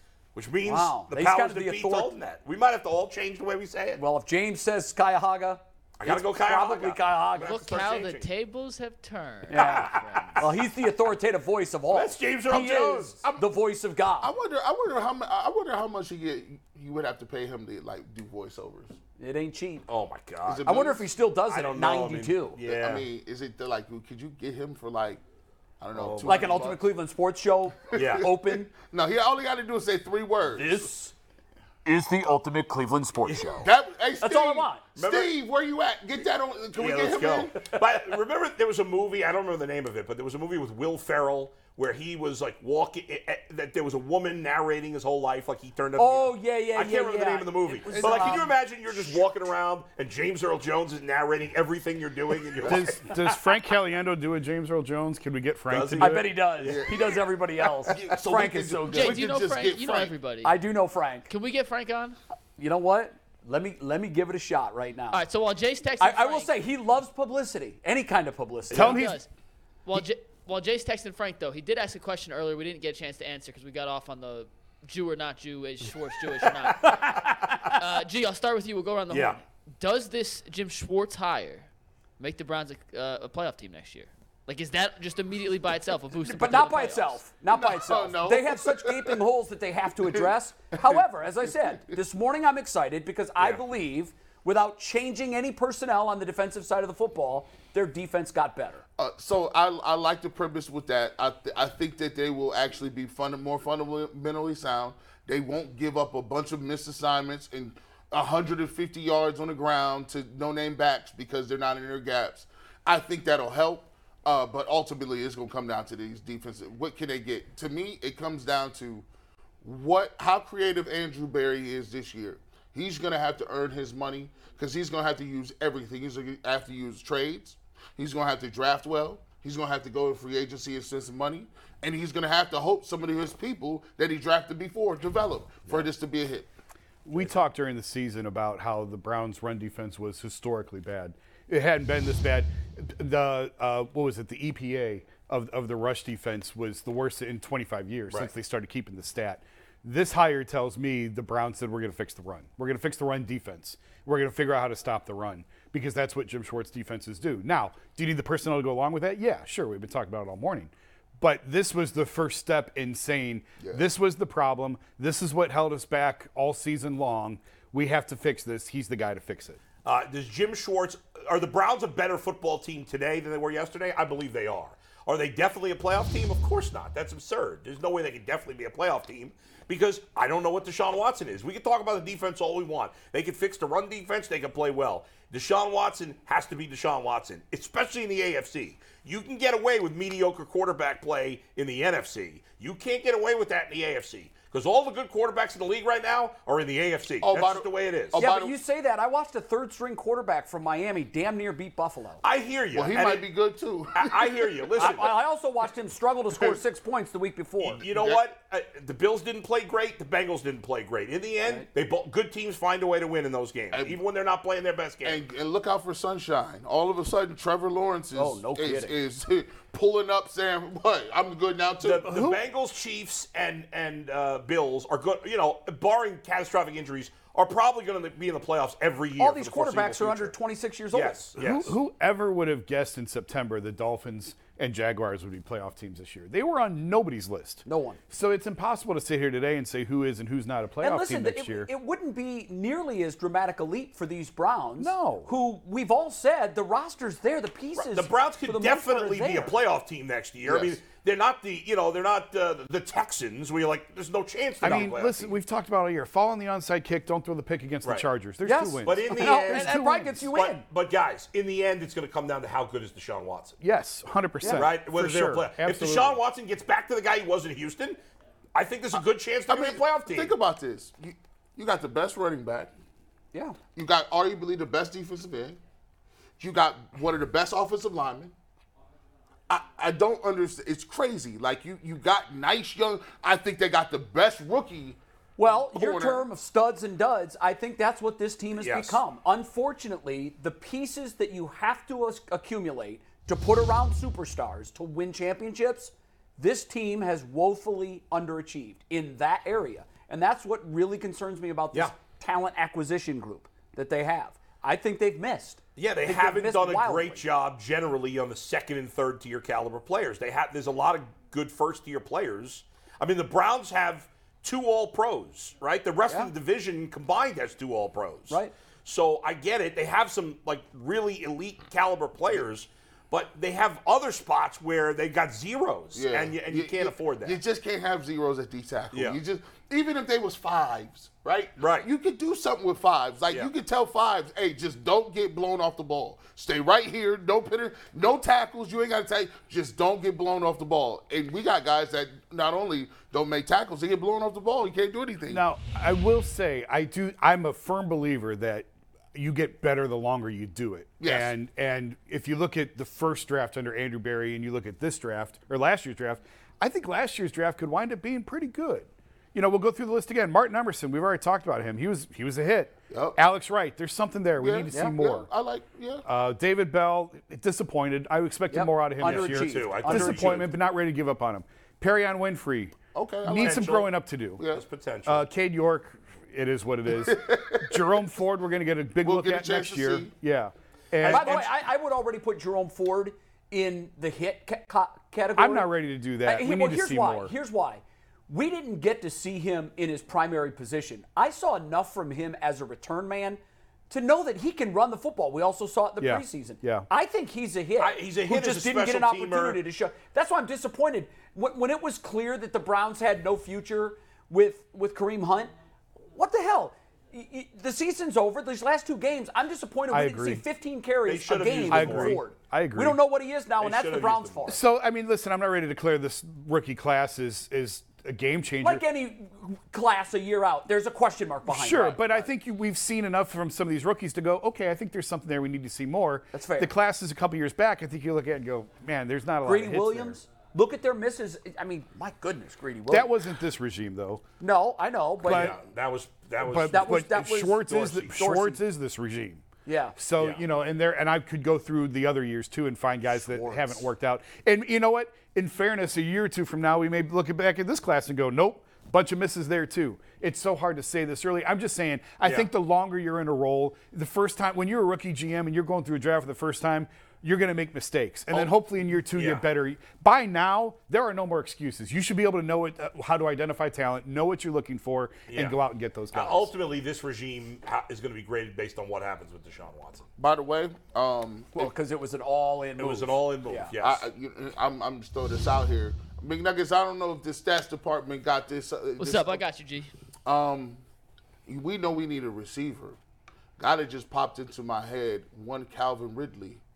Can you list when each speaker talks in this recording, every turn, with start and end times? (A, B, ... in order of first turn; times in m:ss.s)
0:00.3-0:04.0 A
0:00.6-0:02.1 B
0:04.0-0:07.6 B
0:06.0-0:08.3 A
0:07.4-0:10.5 C
0:09.5-0:14.3 B
0:09.5-0:10.5 A
0:11.9-0:13.2 A
0:13.2-0:13.5 D
0:14.2-0:19.0 D
0:19.2-0:19.8 B
0:19.9-0:20.7 A
0:20.4-0:21.1 D
0:20.6-0:22.6 B
0:21.5-0:23.0 A
0:22.6-0:25.2 D
0:25.8-0:26.8 D
0:25.9-0:26.6 A
0:26.2-0:28.7 B
0:27.9-0:30.9 D
0:27.9-0:28.3 A
0:30.5-0:31.1 B
0:31.8-0:33.7 B
0:33.2-0:33.7 A
0:33.6-0:37.6 D
0:34.2-0:34.8 B
0:35.0-0:35.4 A
0:36.7-0:53.2 A
0:37.6-0:37.8 B
0:46.0-0:49.1 B
0:47.9-0:48.5 D
0:52.6-0:56.3 E
0:55.7-0:56.8 A
0:56.0-0:59.3 B
0:56.6-0:57.3 D
0:57.8-1:00.1 D
0:58.9-1:00.6 C
1:00.4-1:01.3 B
1:01.3-1:02.2 C
1:02.6-1:05.2 B
1:05.1-1:06.5 C
1:06.0-1:09.0 B
1:08.7-1:09.0 A
1:08.7-1:09.2 E
1:08.8-1:09.3 C
1:09.8-1:27.2 C
1:16.7-1:17.8 B
1:19.1-1:19.4 A
1:26.2-1:38.8 B
1:27.5-1:29.2 D
1:30.1-1:31.0 D
1:39.0-1:59.0 D
1:59.6-2:16.5 D
2:17.0-2:49.6 E
2:49.8-3:18.2 A
3:17.2-3:18.6 D
3:18.1-3:22.2 B
3:22.2-3:23.3 A
3:22.7-3:24.9 D
3:23.9-3:25.2 A
3:24.8-3:27.8 B
3:27.6-3:35.2 A
3:27.8-3:28.2 D
3:33.7-3:34.0 D
3:35.0-3:42.3 D
3:38.1-3:39.0 B
3:41.8-3:50.3 A
3:42.1-3:42.4 E
3:49.2-3:51.2 B
3:50.9-3:51.8 A
3:51.4-4:01.7 E
3:57.6-3:58.0 B
4:00.8-4:09.5 B
4:04.8-4:05.3 E
4:07.8-4:15.3 A
4:10.4-4:10.8 D
4:14.6-4:20.3 E
4:18.4-4:20.6 B
4:18.8-4:19.8 A
4:20.3-4:23.6 A
4:23.6-4:26.2 E
4:24.4-4:24.7 B
4:24.6-4:28.0 A
4:28.5-4:30.3 A
4:29.5-4:32.7 D
4:33.7-4:35.6 D
4:36.4-4:38.3 D
4:39.5-4:46.3 D
4:45.4-5:07.2 B
4:48.6-4:49.0 A
5:05.8-5:27.4 A
5:16.1-5:16.3 B
5:25.9-5:45.4 D
5:28.9-5:29.2 A
5:31.6-5:31.9 A
5:45.3-6:05.3 E
5:51.0-5:51.3 D
6:02.9-6:03.2 D
6:04.4-6:06.0 D
6:06.0-6:14.4 E
6:08.5-6:10.4 B
6:09.0-6:10.5 A
6:12.9-6:13.8 D
6:13.4-6:13.9 A
6:14.4-6:14.6 D
6:14.5-6:15.2 A
6:15.0-6:21.5 E
6:16.9-6:17.8 D
6:19.0-6:20.1 D
6:21.0-6:21.5 A
6:21.0-6:25.7 B
6:25.4-6:27.3 E
6:26.2-6:45.5 B
6:36.0-6:36.9 E
6:37.8-6:39.6 A
6:46.1-6:54.6 B
6:49.9-6:50.4 E
6:51.0-6:52.2 A
6:51.7-6:53.0 E
6:53.6-6:54.5 A
6:54.5-6:58.8 E
6:58.6-7:02.3 B
7:01.4-7:10.2 E
7:06.3-7:06.7 B
7:09.4-7:13.1 B
7:12.9-7:14.2 E
7:14.4-7:15.5 B
7:15.2-7:15.6 E
7:15.2-7:17.0 A
7:16.4-7:19.4 E
7:16.7-7:18.6 B
7:19.6-7:20.0 B
7:20.0-7:46.5 E
7:23.1-7:23.9 B
7:32.2-7:32.5 A
7:39.1-7:39.4 A
7:45.3-7:45.6 A
7:46.1-7:50.0 A
7:50.2-7:51.7 D
7:51.5-7:53.7 B
7:52.8-7:54.0 A
7:53.8-7:59.4 D
7:59.0-7:59.9 C
8:00.2-8:00.8 D
8:01.4-8:03.0 D
8:03.6-8:06.6 D